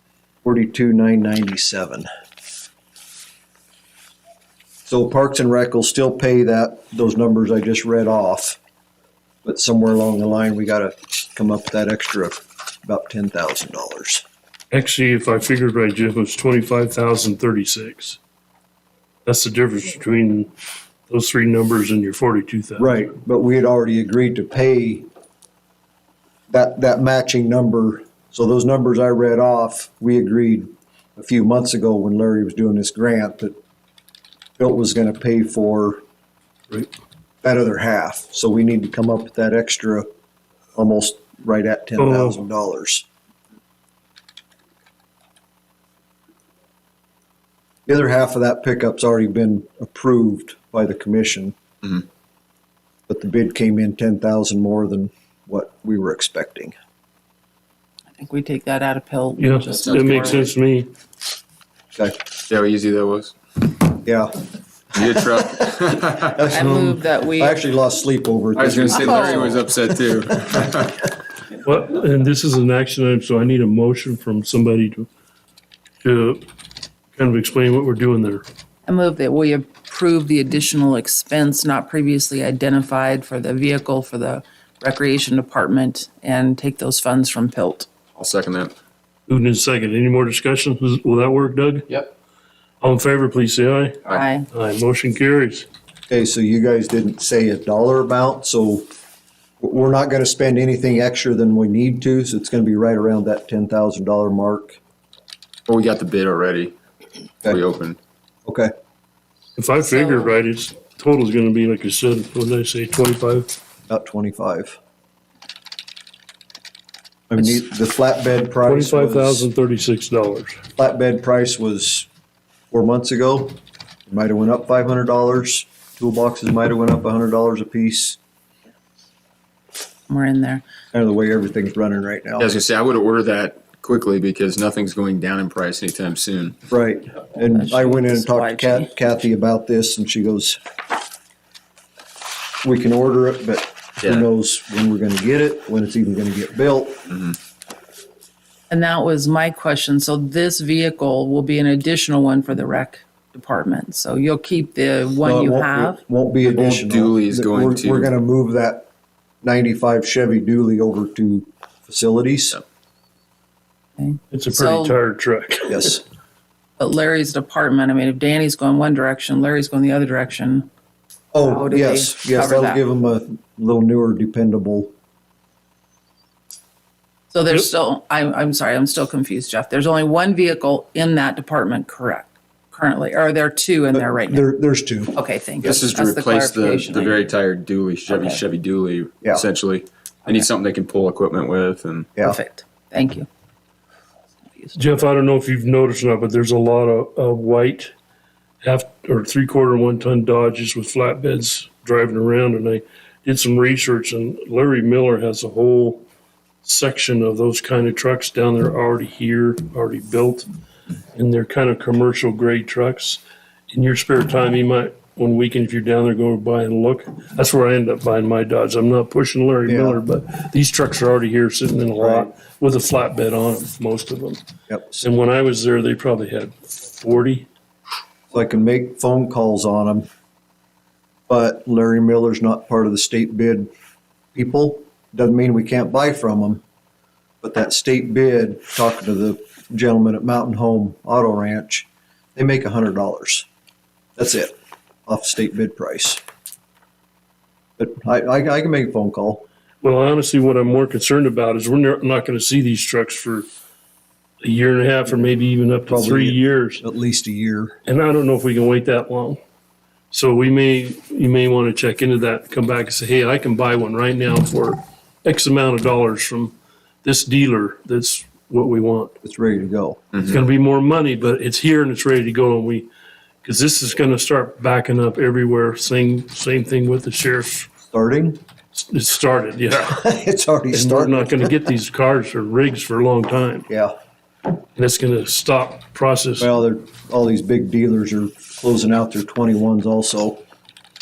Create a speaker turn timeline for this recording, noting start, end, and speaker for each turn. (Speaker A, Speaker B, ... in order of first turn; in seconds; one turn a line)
Speaker A: 0.4-2.1
Speaker A: 4.9-8.6
Speaker A: 9.4-14.2
Speaker B: 14.7-18.2
Speaker B: 19.2-20.5
Speaker B: 21.1-23.0
Speaker A: 22.8-25.1
Speaker A: 26.5-33.5
Speaker A: 34.6-36.0
Speaker A: 37.4-40.1
Speaker A: 40.8-43.0
Speaker B: 42.0-42.4
Speaker A: 47.9-52.0
Speaker A: 53.1-56.7
Speaker C: 58.1-60.5
Speaker B: 59.4-60.9
Speaker D: 59.8-60.4
Speaker D: 62.5-63.3
Speaker A: 64.0-64.3
Speaker D: 64.9-66.3
Speaker A: 65.0-65.7
Speaker A: 66.2-69.7
Speaker C: 66.5-67.6
Speaker D: 68.5-71.1
Speaker C: 69.0-69.5
Speaker B: 71.6-75.1
Speaker B: 76.0-76.4
Speaker B: 77.2-78.4
Speaker C: 78.9-87.9
Speaker D: 88.2-88.7
Speaker B: 89.3-91.9
Speaker B: 92.8-95.7
Speaker C: 94.1-94.5
Speaker A: 96.1-98.8
Speaker A: 99.6-104.8
Speaker D: 105.7-106.8
Speaker D: 107.5-108.0
Speaker A: 108.5-108.7
Speaker B: 109.5-113.5
Speaker C: 109.8-110.3
Speaker A: 113.9-114.8
Speaker A: 117.3-119.5
Speaker B: 118.6-120.6
Speaker A: 120.8-122.1
Speaker A: 122.7-128.2
Speaker C: 130.1-130.6
Speaker A: 130.9-132.5
Speaker D: 132.4-136.6
Speaker A: 136.7-140.6
Speaker C: 137.4-138.9
Speaker A: 142.6-147.0
Speaker D: 147.1-147.3
Speaker C: 148.7-156.0
Speaker A: 155.2-158.9
Speaker D: 156.4-158.1
Speaker A: 159.4-162.6
Speaker C: 164.0-165.0
Speaker B: 164.3-165.9
Speaker A: 165.7-166.0
Speaker C: 166.8-170.7
Speaker A: 171.3-174.9
Speaker C: 171.4-172.8
Speaker C: 177.3-184.5
Speaker A: 183.9-185.2
Speaker C: 185.1-187.3
Speaker D: 185.6-192.1
Speaker C: 188.1-188.4
Speaker C: 192.2-193.3
Speaker C: 194.5-194.8
Speaker B: 194.7-197.9
Speaker B: 198.6-206.0
Speaker B: 206.6-210.5
Speaker B: 211.1-224.4
Speaker A: 219.7-220.0
Speaker A: 222.0-222.3
Speaker A: 224.7-225.0
Speaker B: 225.0-227.5
Speaker A: 228.3-230.1
Speaker A: 231.3-233.7
Speaker A: 234.3-236.6
Speaker A: 237.4-243.5
Speaker A: 244.2-244.5
Speaker A: 245.1-246.2
Speaker A: 247.8-249.4
Speaker B: 249.8-253.5
Speaker B: 254.4-256.8
Speaker A: 255.9-257.8
Speaker B: 257.9-259.4
Speaker B: 260.1-269.1
Speaker A: 269.2-270.0
Speaker B: 270.2-272.9
Speaker B: 273.4-277.7
Speaker A: 277.9-278.4
Speaker B: 278.7-280.0
Speaker A: 279.8-281.6
Speaker B: 280.7-283.7
Speaker B: 284.8-286.5
Speaker A: 286.4-290.4